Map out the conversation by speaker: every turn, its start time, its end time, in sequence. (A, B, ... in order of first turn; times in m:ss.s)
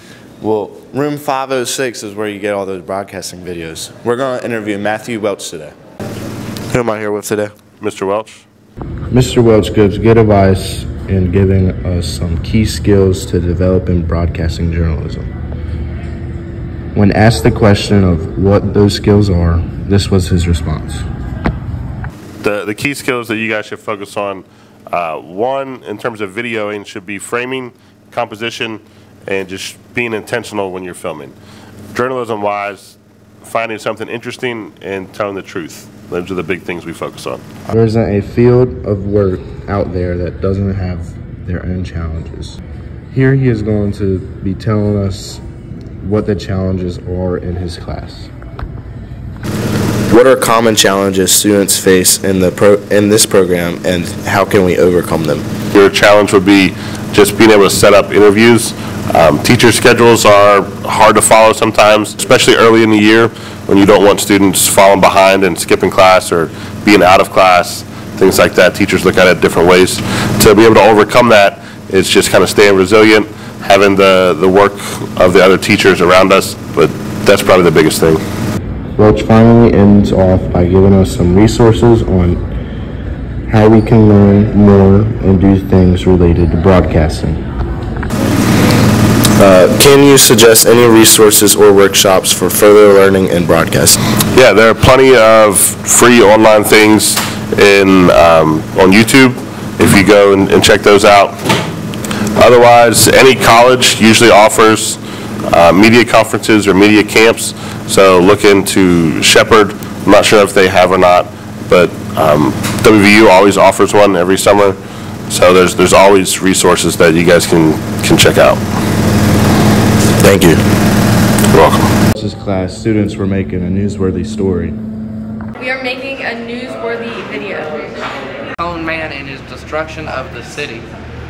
0:00.4-0:05.8 A
0:06.7-0:07.5 A
0:07.8-0:08.4 B
0:09.1-0:15.3 C
0:16.9-0:21.0 C
0:22.4-0:31.4 B
0:31.9-0:37.4 B
0:37.7-0:42.6 C
0:43.1-0:45.4 C
0:46.0-0:48.3 C
0:50.1-0:55.5 A
0:55.7-1:18.2 B
1:19.0-1:22.4 C
1:23.5-1:27.4 C
1:29.4-1:34.0 A
1:34.3-1:41.4 B
1:42.4-1:54.8 B
1:55.3-1:58.6 B
2:00.2-2:00.6 A
2:01.5-2:01.9 B
2:02.1-2:04.8 C
2:05.6-2:07.9 D
2:08.6-2:10.9 E